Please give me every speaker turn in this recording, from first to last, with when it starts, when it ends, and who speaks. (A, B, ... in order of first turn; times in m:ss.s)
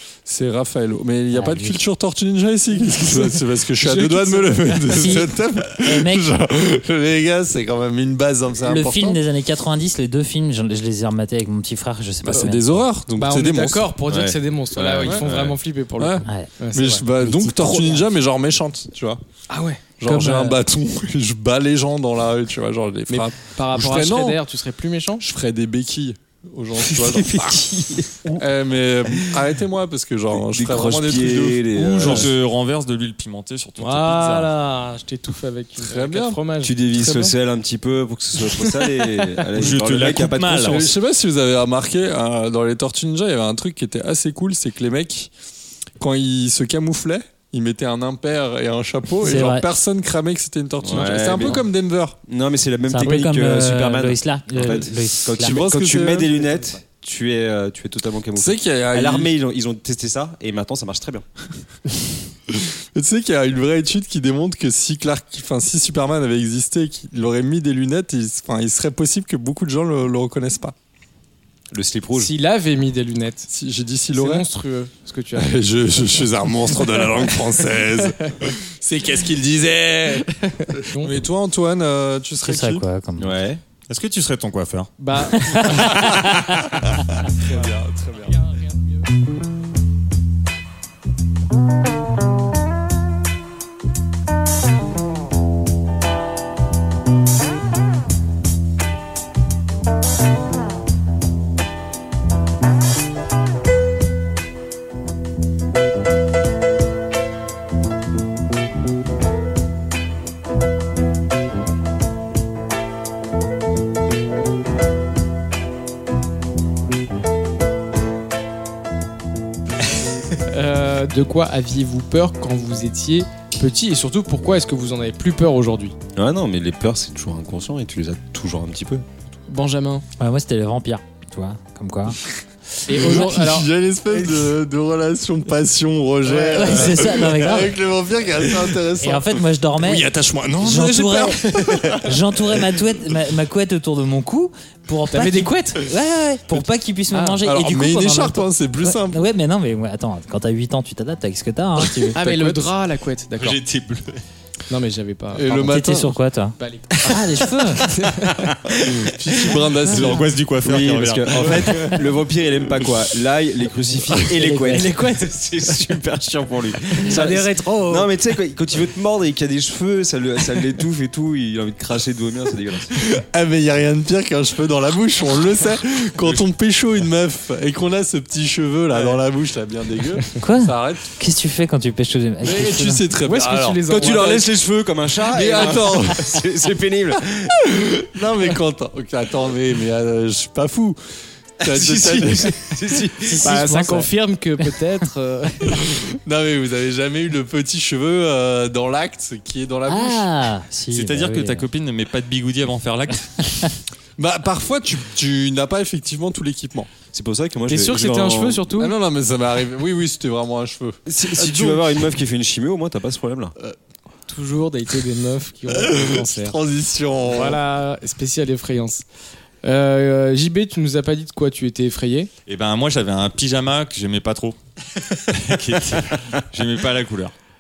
0:00.2-0:09.2 A
0:01.3-0:01.8 B
0:02.9-0:05.1 C
0:04.9-0:06.3 B
0:08.6-0:12.8 B
0:12.2-0:13.9 A
0:13.2-0:18.0 C
0:14.1-0:15.6 D
0:15.0-0:19.2 A
0:19.5-0:19.8 C
0:20.0-0:24.4 A
0:20.0-0:20.6 B
0:23.1-0:25.2 C
0:25.2-0:27.6 A
0:26.8-0:28.4 C
0:28.4-0:32.2 A
0:30.3-0:32.3 D
0:31.7-0:34.5 E
0:33.8-0:37.3 C
0:35.8-0:36.4 A
0:36.6-0:40.9 D
0:38.4-0:39.4 C
0:39.6-0:40.9 E
0:40.6-0:45.3 A
0:46.0-0:52.2 A
0:49.2-0:49.7 B
0:50.8-0:51.7 D
0:52.2-1:01.2 D
0:52.9-0:55.6 B
0:55.4-0:56.5 A
0:58.4-0:59.3 A
1:02.5-1:10.8 A
1:11.7-1:12.3 D
1:12.2-1:13.5 C
1:13.5-1:14.5 A
1:14.1-1:18.5 C
1:15.4-1:22.8 A
1:20.2-1:21.2 C
1:22.4-1:23.4 B
1:23.2-1:23.6 D
1:23.9-1:24.9 E
1:25.0-1:26.2 C
1:25.3-1:26.6 B
1:25.6-1:26.6 E
1:27.2-1:28.4 A
1:27.4-1:27.7 C
1:28.4-1:28.8 C
2:00.4-2:06.0 C
2:06.2-2:09.1 D
2:09.5-2:10.0 C
2:10.2-2:12.2 B
2:12.9-2:14.5 C
2:12.9-2:22.8 A
2:12.9-2:13.3 B
2:16.3-2:17.1 C
2:16.4-2:17.8 B
2:19.0-2:20.1 B
2:20.6-2:32.1 B
2:25.1-2:25.8 C
2:27.1-2:27.5 C
2:27.4-2:29.2 A
2:31.8-2:33.6 C
2:32.1-2:32.7 A
2:33.4-2:34.2 E
2:34.7-2:35.5 C
2:35.3-2:36.2 A
2:35.5-2:37.9 B
2:36.6-2:38.5 C
2:38.9-2:40.3 A
2:40.0-2:41.9 E
2:40.6-2:53.0 D
2:41.6-2:42.0 A
2:44.4-2:44.9 B
2:44.7-2:45.3 C
2:46.9-2:48.1 C
2:47.2-2:47.5 B
2:52.9-3:01.1 A
3:00.4-3:03.1 B
3:02.4-3:03.8 A
3:03.2-3:04.5 C
3:03.9-3:07.7 D
3:05.2-3:06.4 A
3:07.7-3:12.6 A
3:11.7-3:13.7 D
3:13.3-3:16.0 C
3:13.6-3:14.1 B
3:15.7-3:20.3 A
3:19.9-3:21.7 B
3:20.9-3:23.7 E
3:24.2-3:26.9 A
3:27.1-3:28.6 D
3:27.7-3:29.0 C
3:28.8-3:32.0 A
3:31.1-3:33.6 D
3:34.3-3:36.6 C
3:35.8-3:37.6 A
3:37.2-3:39.0 C
3:39.6-3:42.3 C
3:42.5-3:44.6 E
3:45.1-3:47.3 E